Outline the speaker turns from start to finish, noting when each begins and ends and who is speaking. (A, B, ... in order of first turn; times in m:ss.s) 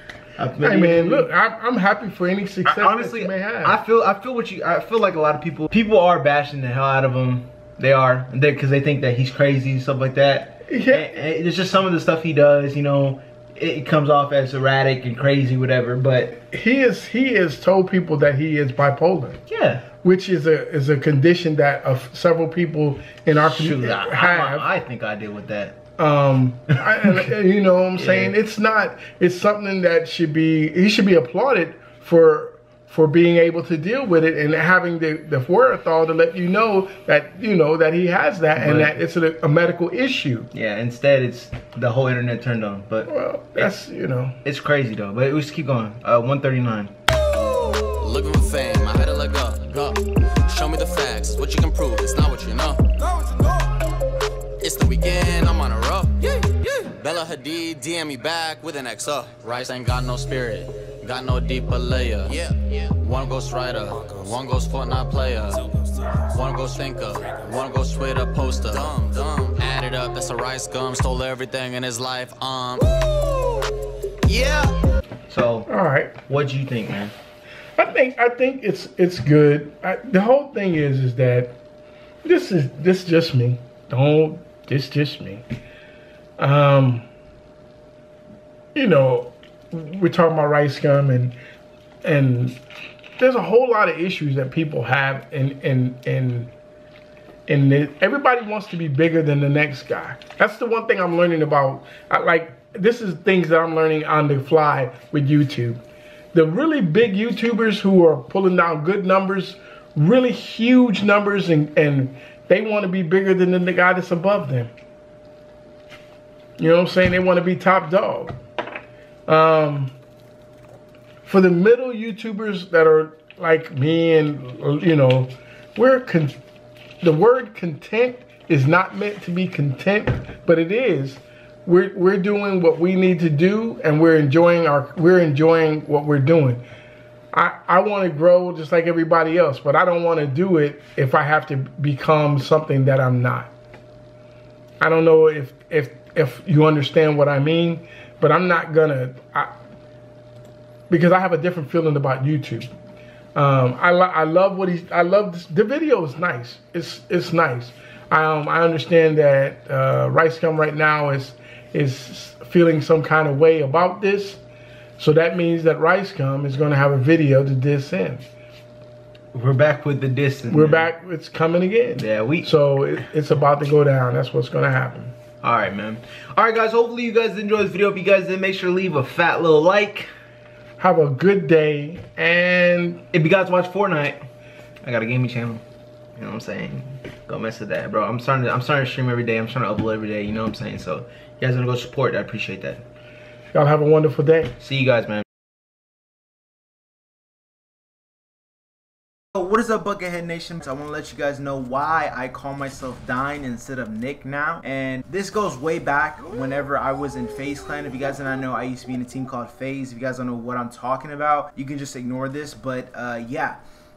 0:00.4-0:01.3 A
0:00.6-0:03.8 B
0:02.6-0:16.3 A
0:10.7-0:11.1 B
0:16.3-0:19.4 B
0:19.5-0:19.8 A
0:20.0-0:24.7 B
0:23.4-0:25.8 A
0:26.0-0:40.5 B
0:27.0-0:27.3 A
0:28.0-0:28.3 A
0:38.6-0:39.0 A
0:40.5-0:43.7 A
0:43.1-0:44.4 B
0:44.4-0:46.9 A
0:48.0-0:53.3 C
0:54.6-1:13.4 C
1:14.2-1:14.7 C
1:15.3-1:15.7 A
1:15.7-1:16.2 B
1:16.3-1:17.1 A
1:17.8-1:21.5 B
1:22.2-1:25.4 B
1:26.4-1:27.1 B
1:28.7-1:31.4 B
1:32.0-1:32.6 B
1:33.2-1:36.5 B
1:37.5-1:45.8 B
1:46.3-1:54.7 B
1:56.6-1:58.3 B
1:59.3-1:59.9 B
2:01.2-2:06.4 B
2:07.0-2:16.6 B
2:17.3-2:23.5 B
2:24.8-2:29.5 B
2:30.9-2:32.7 B
2:33.4-2:44.4 B
2:45.0-2:48.2 B
2:49.3-2:50.9 A
2:50.5-2:55.1 B
2:52.0-2:52.5 A
2:55.4-3:00.1 A
3:00.8-3:03.0 B
3:03.1-3:04.2 A
3:04.8-3:05.6 A
3:06.2-3:12.8 A
3:13.5-3:14.5 B
3:14.6-3:15.2 A
3:19.4-3:33.6 A